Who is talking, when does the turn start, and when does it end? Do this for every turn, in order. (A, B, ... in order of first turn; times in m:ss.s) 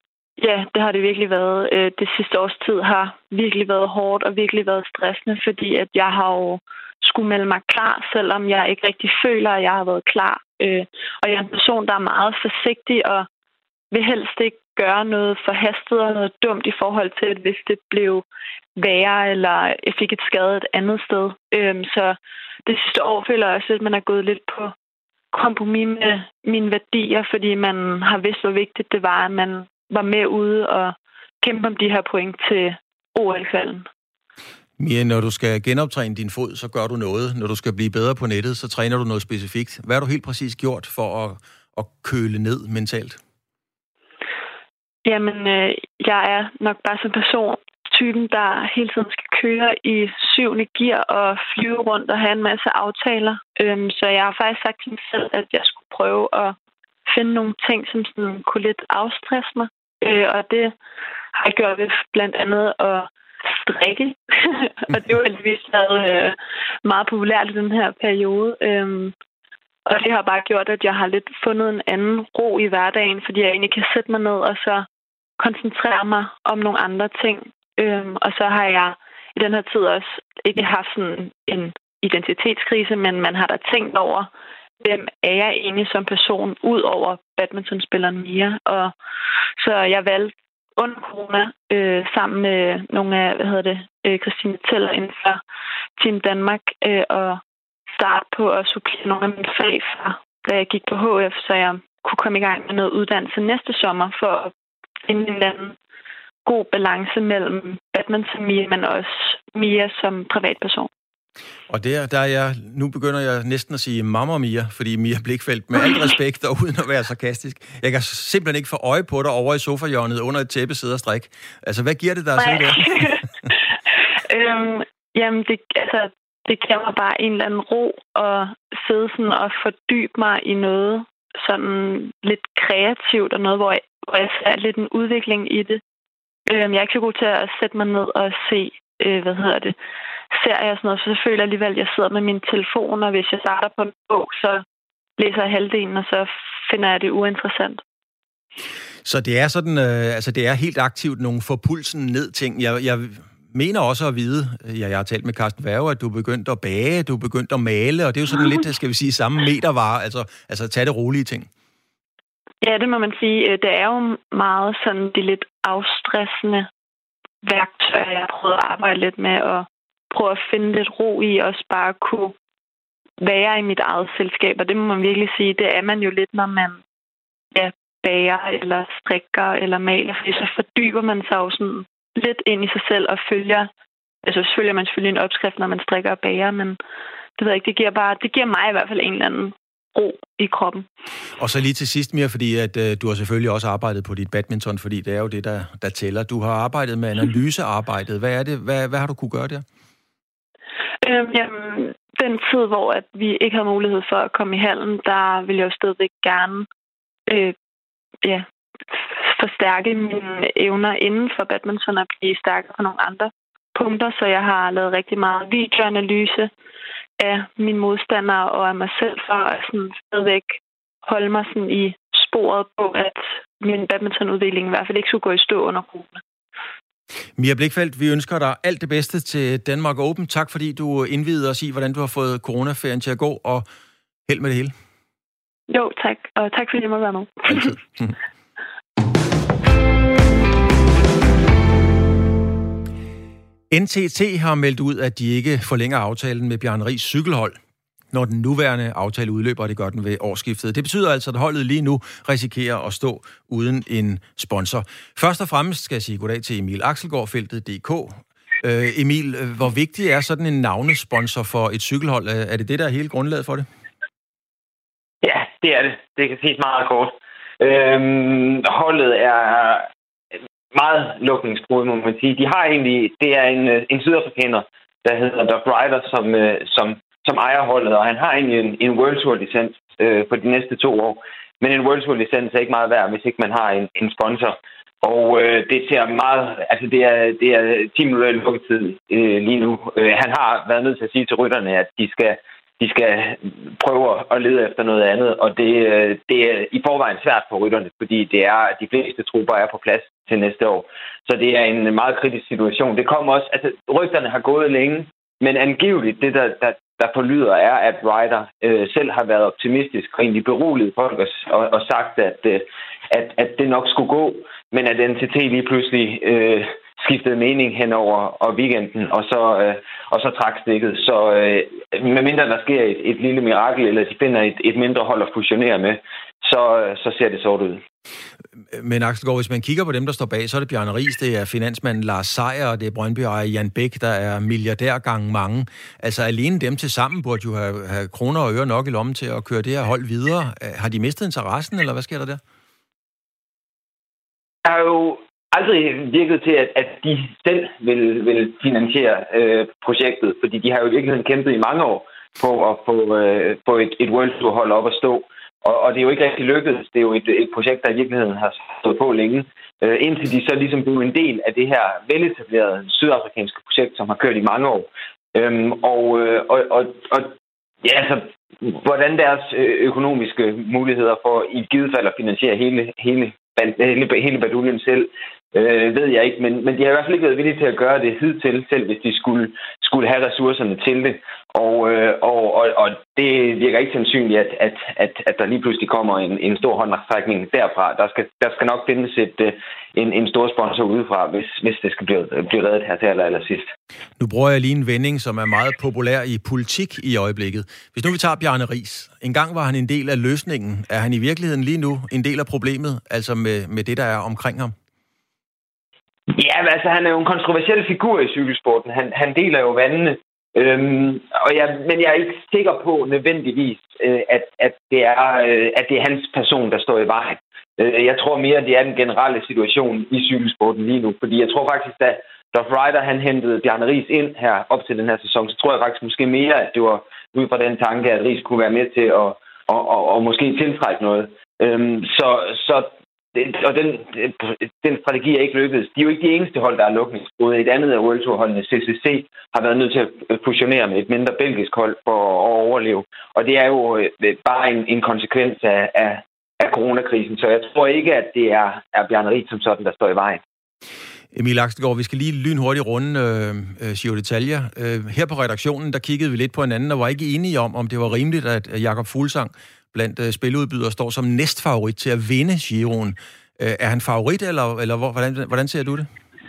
0:00.4-0:13.3 A
0:13.9-0:18.2 A
0:18.8-0:24.7 A
0:25.3-0:33.9 A
0:34.8-0:43.2 B
0:45.0-0:56.6 A
0:57.1-1:00.7 A
1:01.4-1:09.1 A
1:09.9-1:14.9 A
1:15.4-1:24.3 A
1:24.8-1:28.9 A
1:29.6-1:35.4 A
1:36.0-1:37.4 A
1:37.9-1:44.5 A
1:45.0-1:45.8 A
1:46.5-1:50.9 A
1:51.7-2:03.2 B
2:02.4-2:03.2 A
2:04.2-2:15.8 A
2:16.5-2:19.8 A
2:20.3-2:24.6 A
2:25.2-2:27.8 A
2:29.0-2:41.5 B
2:42.6-2:46.7 A
2:47.4-2:52.3 A
2:53.2-2:56.8 A
2:57.5-3:03.7 A
3:04.2-3:06.8 A
3:07.4-3:10.9 A
3:11.4-3:19.6 B
3:21.0-3:26.7 A
3:27.3-3:27.6 A
3:29.2-3:36.5 A
3:37.2-3:46.2 A
3:47.4-3:53.7 B
3:54.3-3:54.7 B
3:55.7-3:57.8 A
4:03.7-4:07.6 B
4:08.1-4:23.7 B
4:25.2-4:29.9 C
4:30.7-5:27.8 C
5:28.7-5:42.4 B
5:44.6-6:33.7 C
6:34.2-6:44.8 B
6:46.3-7:30.4 C
7:31.3-7:46.1 B